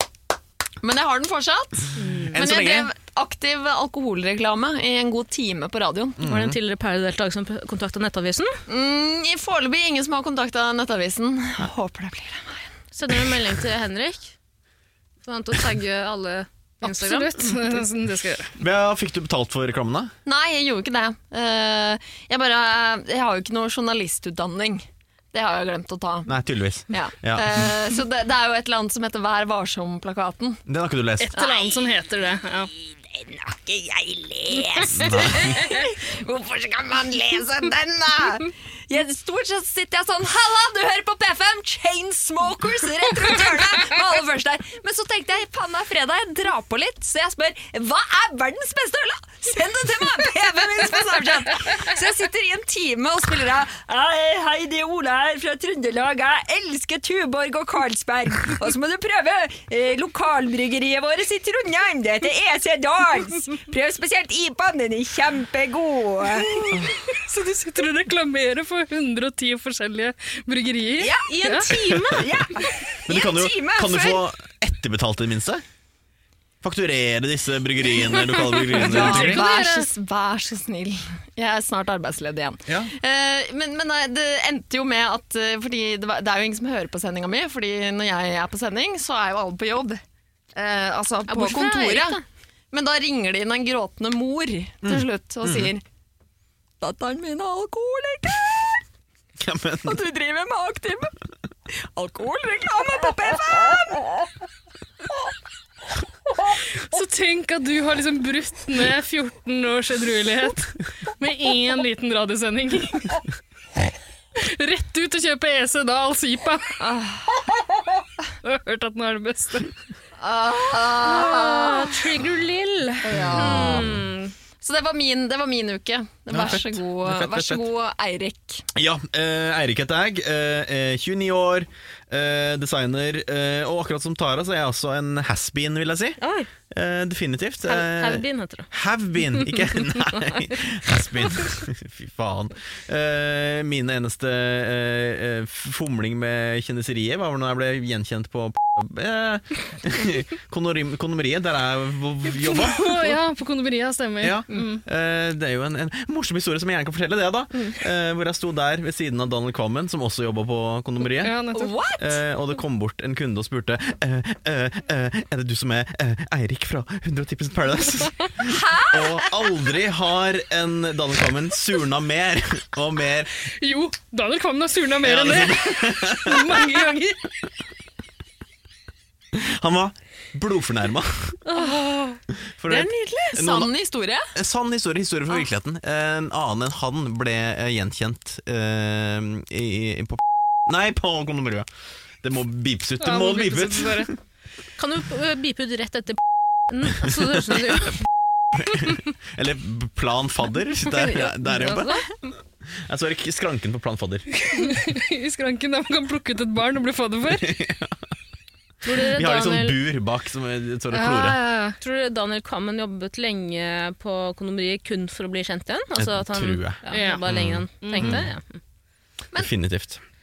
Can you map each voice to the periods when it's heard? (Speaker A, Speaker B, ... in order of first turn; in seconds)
Speaker A: 0.8-6.2, 8.7-12.7, 20.2-26.3, 26.9-30.6, 31.3-31.9, 33.0-66.9, 71.0-71.3, 72.2-74.2, 78.3-90.0, 90.5-92.2, 92.7-95.8, 96.8-98.8, 99.8-101.1, 101.7-104.2, 116.8-117.4, 120.2-121.9, 123.0-124.0, 124.6-128.6, 161.5-162.2, 168.4-169.3, 181.5-181.8, 182.7-184.2
Speaker B: 2.0-2.3, 16.8-18.6, 31.2-32.7, 66.7-71.7, 78.8-79.9, 106.8-113.2, 114.4-116.8, 118.4-119.7, 152.4-154.8, 161.2-161.8, 173.6-177.2, 193.0-194.1, 204.3-207.5, 210.9-211.8, 216.9-217.2, 217.8-218.2
Speaker C: 2.3-2.9, 6.2-6.6, 18.6-20.1, 26.3-27.7, 30.7-31.3, 34.9-35.6, 73.1-75.6, 76.6-79.4, 94.8-95.7, 99.4-100.0, 123.1-123.9, 126.3-127.6, 128.8-136.2, 136.7-153.2, 154.2-161.4, 162.0-173.4, 175.0-176.6, 179.3-181.4, 182.6-183.7, 184.3-191.7, 192.2-194.2, 198.6-202.0, 202.9-204.3, 207.3-208.0, 209.1-211.4, 216.0-218.2, 219.4-220.0
Speaker D: 6.2-8.6, 12.9-14.3, 15.2-17.8, 71.3-72.5, 91.3-92.2, 121.1-124.0, 136.2-136.5, 137.7-138.7, 194.8-198.0, 200.9-202.1, 208.8-209.8, 211.8-218.6